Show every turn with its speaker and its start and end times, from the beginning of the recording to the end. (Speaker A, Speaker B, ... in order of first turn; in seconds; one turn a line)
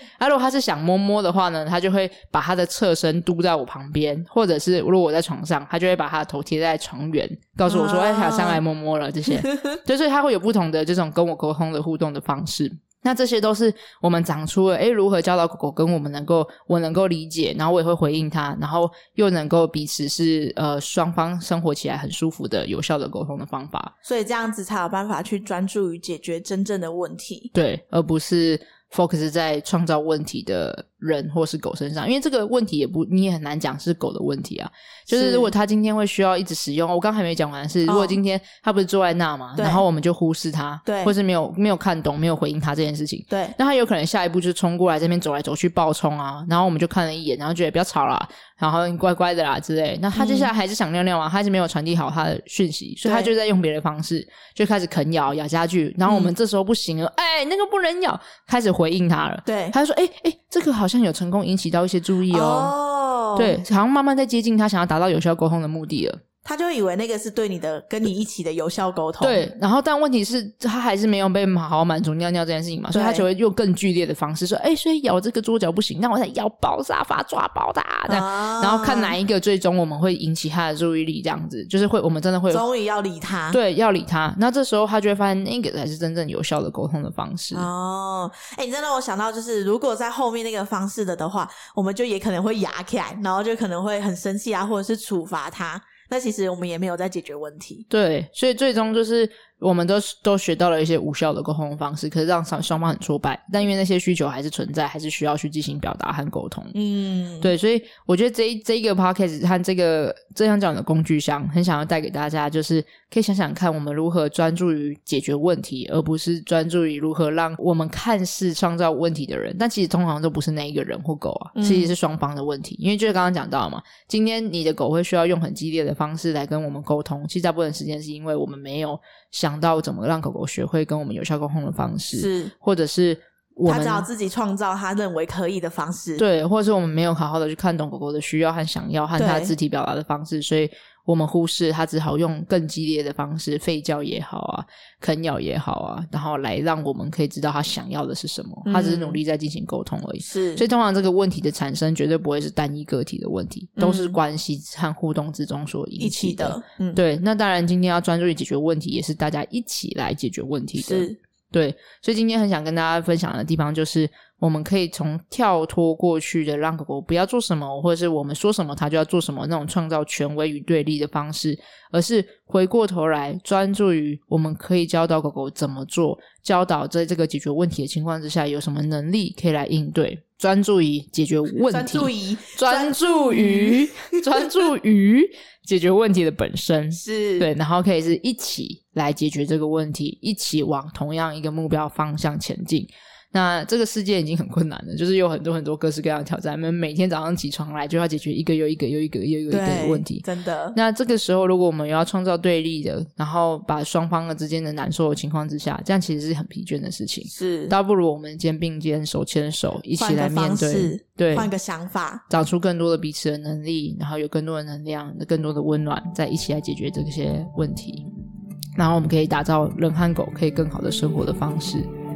Speaker A: 0.2-23.9
Speaker B: 7.7-8.6
Speaker B: 9.3-9.8
Speaker B: 24.1-27.5
Speaker A: 27.5-62.8
Speaker B: 35.1-35.5
Speaker B: 37.9-38.2
Speaker B: 39.6-39.8
Speaker B: 40.9-41.1
Speaker B: 43.3-43.6
Speaker B: 50.1-50.5
Speaker B: 53.0-53.3
Speaker B: 56.1-56.3
Speaker B: 59.5-59.8
Speaker B: 62.3-63.6
Speaker A: 63.4-66.2
Speaker B: 66.4-69.5
Speaker A: 69.2-82.6
Speaker B: 72.9-73.3
Speaker B: 78.1-79.2
Speaker B: 82.5-83.6
Speaker A: 83.5-87.7
Speaker B: 87.5-97.9
Speaker A: 97.9-106.7
Speaker B: 106.7-107.5
Speaker A: 107.4-134.1
Speaker B: 121.6-121.9
Speaker B: 132.2-132.5
Speaker B: 133.7-136.2
Speaker A: 136.2-211.5
Speaker B: 139.2-139.6
Speaker B: 148.7-149.2
Speaker B: 150.2-150.7
Speaker B: 153.8-154.2
Speaker B: 156.0-157.0
Speaker B: 160.8-161.2
Speaker B: 181.6-184.4
Speaker B: 186.9-187.5
Speaker B: 199.5-200.8
Speaker B: 207.3-207.8
Speaker B: 210.0-212.2
Speaker A: 212.3-218.1
Speaker A: 218.8-221.9